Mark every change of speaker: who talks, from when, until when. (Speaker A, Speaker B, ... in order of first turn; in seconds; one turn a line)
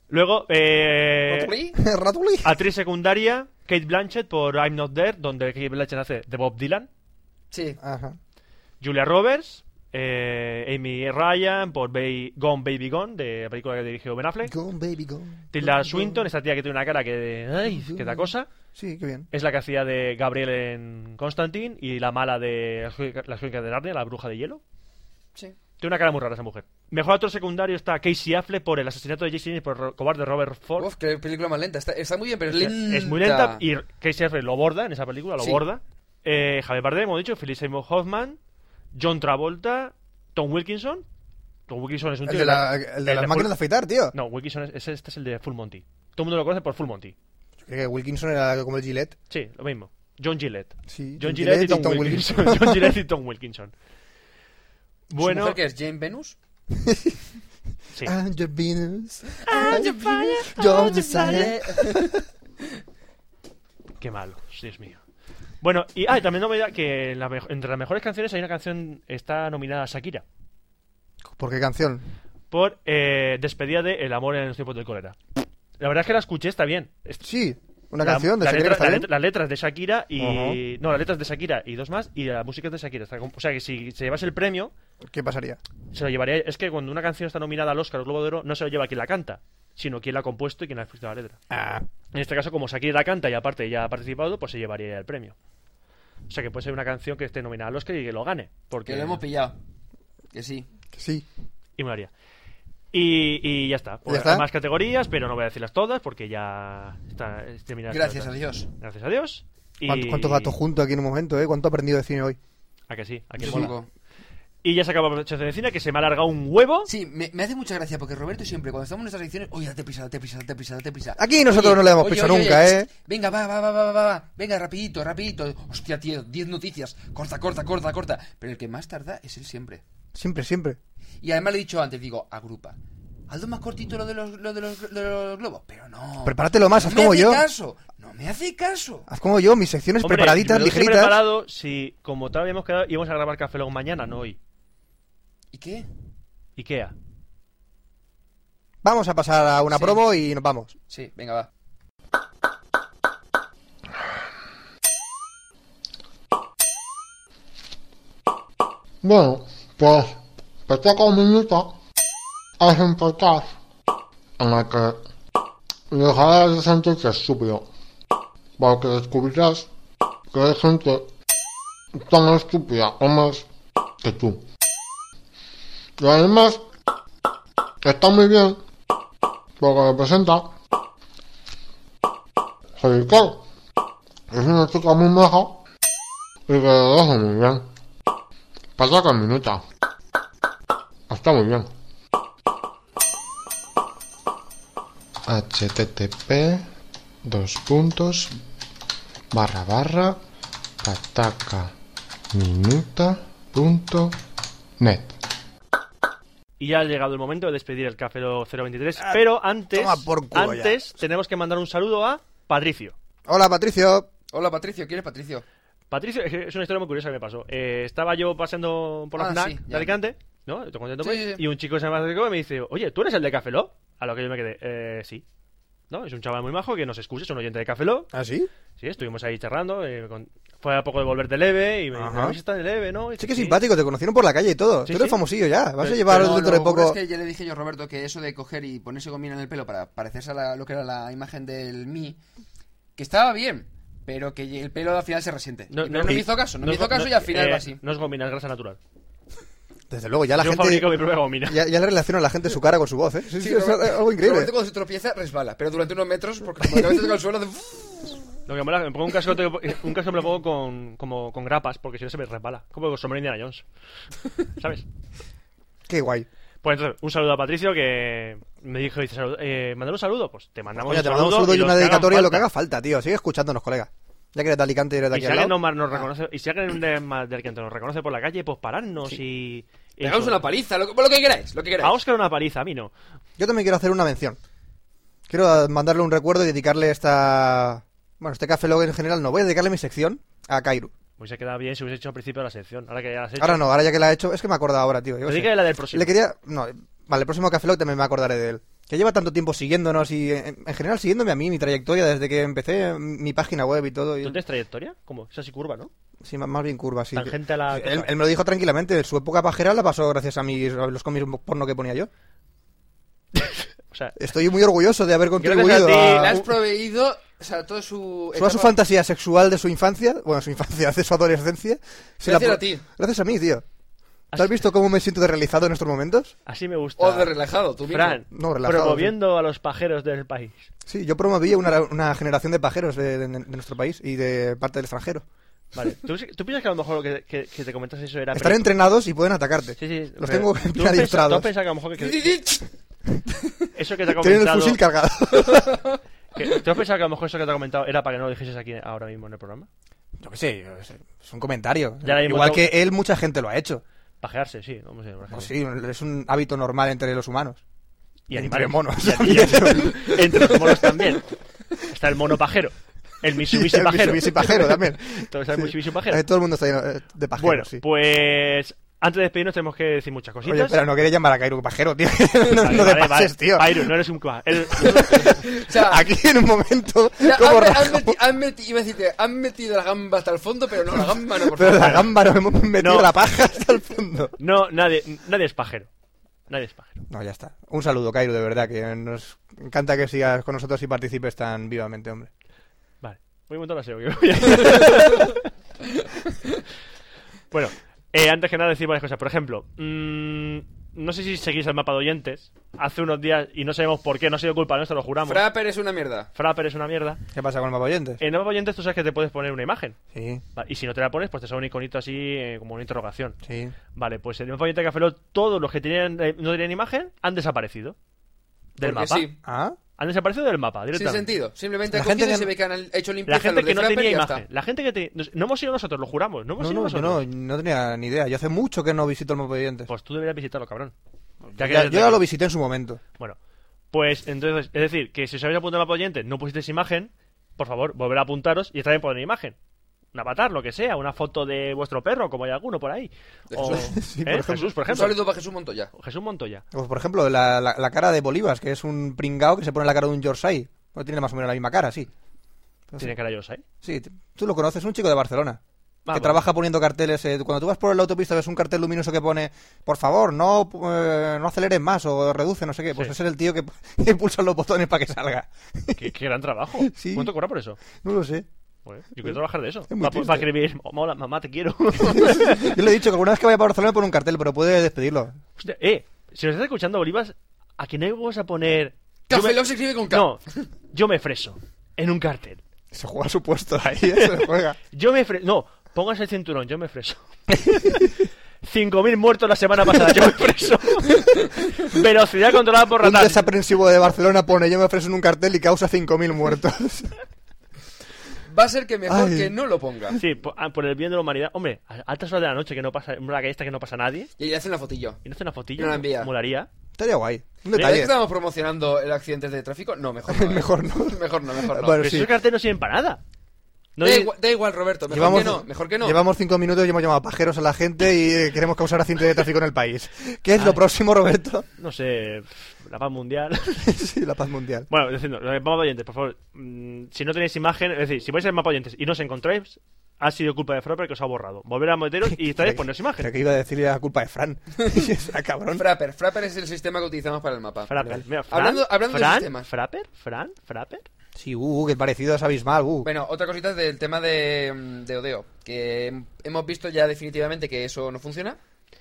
Speaker A: 0.1-1.5
Speaker B: 1.3-1.8
Speaker C: 1.8-2.6
Speaker A: 2.4-6.9
Speaker B: 7.5-7.8
Speaker C: 7.8-8.2
Speaker A: 8.8-14.6
Speaker C: 14.4-16.3
Speaker A: 15.5-18.5
Speaker C: 17.7-19.3
Speaker A: 19.3-24.6
Speaker A: 25.8-30.9
Speaker B: 30.8-33.6
Speaker A: 32.5-38.4
Speaker A: 38.9-41.0
Speaker A: 41.7-43.6
Speaker C: 42.3-44.1
Speaker A: 44.1-47.1
Speaker C: 47.6-49.2
Speaker A: 49.3-53.7
Speaker C: 50.9-53.0
Speaker A: 55.1-55.6
Speaker B: 55.2-56.4
Speaker C: 56.7-57.2
Speaker C: 58.0-62.2
Speaker B: 59.5-62.2
Speaker A: 59.5-61.4
Speaker A: 64.0-65.0
Speaker A: 65.6-70.2
Speaker C: 71.2-72.0
Speaker A: 72.5-75.2
Speaker A: 75.8-77.2
Speaker C: 77.2-79.1
Speaker A: 78.0-84.7
Speaker C: 80.2-80.6
Speaker C: 85.1-85.6
Speaker A: 85.9-91.4
Speaker C: 91.5-91.8
Speaker A: 92.1-95.4
Speaker A: 96.3-99.2
Speaker B: 98.9-99.6
Speaker B: 100.3-100.7
Speaker C: 100.9-101.3
Speaker A: 101.8-102.1
Speaker A: 102.9-110.6
Speaker C: 104.1-104.5
Speaker B: 107.9-108.7
Speaker C: 109.9-112.4
Speaker A: 112.9-113.7
Speaker B: 113.4-113.9
Speaker C: 113.4-113.7
Speaker A: 114.6-116.9
Speaker B: 116.9-129.8
Speaker C: 121.2-122.9
Speaker C: 130.2-130.8
Speaker B: 131.2-132.8
Speaker B: 133.3-139.1
Speaker C: 136.2-137.4
Speaker C: 139.1-141.2
Speaker A: 140.0-144.4
Speaker B: 145.5-145.9
Speaker A: 146.6-146.9
Speaker C: 148.8-150.8
Speaker B: 150.9-151.5
Speaker D: 159.0-161.7
Speaker D: 162.6-163.6
Speaker D: 164.4-165.0
Speaker D: 165.9-167.7
Speaker D: 168.6-169.7
Speaker D: 170.3-171.1
Speaker D: 172.0-173.5
Speaker D: 174.0-174.4
Speaker D: 176.0-176.6
Speaker D: 177.8-178.6
Speaker D: 179.6-180.5
Speaker D: 182.8-183.4
Speaker D: 184.3-185.6
Speaker D: 186.5-187.7
Speaker D: 188.8-189.6
Speaker D: 191.1-191.7
Speaker E: 195.3-196.7
Speaker E: 197.2-198.4
Speaker E: 199.3-200.2
Speaker E: 200.8-201.7
Speaker E: 202.3-204.2
Speaker E: 204.8-205.2
Speaker A: 206.6-212.9
Speaker C: 209.0-210.9
Speaker C: 213.3-214.1
Speaker B: 214.3-215.4
Speaker A: 215.9-225.2
Speaker B: 219.2-220.0
Speaker B: 221.0-221.4
Speaker A: 225.9-228.1
Speaker C: 228.1-228.5
Speaker A: 228.8-233.6
Speaker C: 231.9-232.4
Speaker C: 233.2-237.0
Speaker A: 234.9-235.2
Speaker A: 235.8-236.1
Speaker B: 236.0-242.2
Speaker B: 243.0-247.8
Speaker A: 245.7-248.8
Speaker C: 249.9-254.5
Speaker A: 250.4-251.6
Speaker B: 253.4-258.2
Speaker A: 258.5-263.6
Speaker A: 264.6-264.9
Speaker C: 265.9-266.3
Speaker A: 266.6-272.5
Speaker C: 270.8-275.6
Speaker A: 275.1-280.4
Speaker B: 280.0-282.0
Speaker A: 281.8-282.9
Speaker C: 283.4-284.4
Speaker C: 285.3-290.9
Speaker A: 291.2-293.7
Speaker C: 293.4-304.4
Speaker A: 295.2-296.1
Speaker A: 304.2-305.9
Speaker C: 306.2-312.1
Speaker A: 307.1-308.1
Speaker A: 313.4-314.2
Speaker C: 314.2-316.4
Speaker A: 315.4-316.4
Speaker B: 316.0-318.8
Speaker C: 318.4-323.6
Speaker B: 322.2-322.8
Speaker C: 324.3-326.4
Speaker A: 326.5-327.3
Speaker B: 327.0-328.2
Speaker A: 327.9-330.7
Speaker C: 328.3-329.1
Speaker C: 330.9-335.2
Speaker A: 335.8-338.7
Speaker C: 338.3-341.5
Speaker A: 339.8-342.3
Speaker B: 342.0-342.6
Speaker A: 343.8-344.8
Speaker C: 344.1-345.8
Speaker A: 346.4-349.7
Speaker C: 350.2-353.8
Speaker A: 352.0-352.8
Speaker A: 354.2-355.5
Speaker C: 355.3-357.6
Speaker A: 358.3-361.3
Speaker C: 358.3-361.1
Speaker A: 361.8-366.2
Speaker C: 363.5-367.8
Speaker A: 367.4-370.8
Speaker C: 370.4-373.9
Speaker A: 372.6-375.4
Speaker C: 374.7-378.2
Speaker B: 375.0-376.1
Speaker B: 377.2-382.1
Speaker C: 381.4-384.4
Speaker A: 382.8-383.1
Speaker A: 384.4-385.9
Speaker A: 386.5-387.0
Speaker C: 387.1-392.3
Speaker A: 393.0-395.4
Speaker A: 397.5-405.4
Speaker B: 405.2-406.3
Speaker A: 406.4-407.2
Speaker C: 407.3-408.2
Speaker A: 408.2-410.0
Speaker C: 410.1-410.4
Speaker A: 410.6-413.4
Speaker C: 413.4-413.8
Speaker A: 414.0-418.0
Speaker A: 418.8-419.3
Speaker B: 418.8-419.4
Speaker C: 419.4-419.8
Speaker A: 420.0-421.3
Speaker B: 420.9-424.4
Speaker C: 421.9-422.5
Speaker A: 423.3-427.2
Speaker C: 426.6-429.9
Speaker A: 429.9-430.9
Speaker C: 431.5-433.0
Speaker A: 431.6-432.2
Speaker A: 433.9-439.6
Speaker A: 440.1-445.2
Speaker B: 443.5-443.9
Speaker C: 443.7-444.7
Speaker B: 444.9-445.9
Speaker A: 445.9-446.6
Speaker C: 446.7-452.1
Speaker C: 452.9-453.1
Speaker A: 453.0-453.6
Speaker C: 453.8-455.6
Speaker A: 456.1-456.4
Speaker C: 456.1-466.1
Speaker A: 465.9-467.8
Speaker C: 466.8-467.3
Speaker C: 467.9-468.5
Speaker A: 468.9-472.7
Speaker C: 469.2-470.5
Speaker C: 472.0-475.4
Speaker A: 475.6-479.6
Speaker B: 479.3-480.7
Speaker A: 480.1-482.6
Speaker C: 482.9-484.8
Speaker A: 484.9-488.1
Speaker C: 487.7-488.0
Speaker A: 488.6-493.5
Speaker C: 493.0-497.1
Speaker B: 498.5-500.2
Speaker C: 499.1-499.5
Speaker A: 500.2-504.3
Speaker B: 504.4-505.2
Speaker A: 505.2-506.7
Speaker B: 505.8-506.3
Speaker C: 507.0-508.1
Speaker B: 507.7-512.2
Speaker C: 510.3-512.3
Speaker A: 512.0-513.2
Speaker A: 514.0-514.3
Speaker B: 514.0-516.2
Speaker C: 515.1-521.7
Speaker A: 521.8-523.9
Speaker C: 523.8-524.9
Speaker A: 524.9-533.3
Speaker C: 532.2-535.9
Speaker B: 535.8-539.7
Speaker A: 537.9-541.1
Speaker C: 541.4-543.1
Speaker B: 543.0-548.6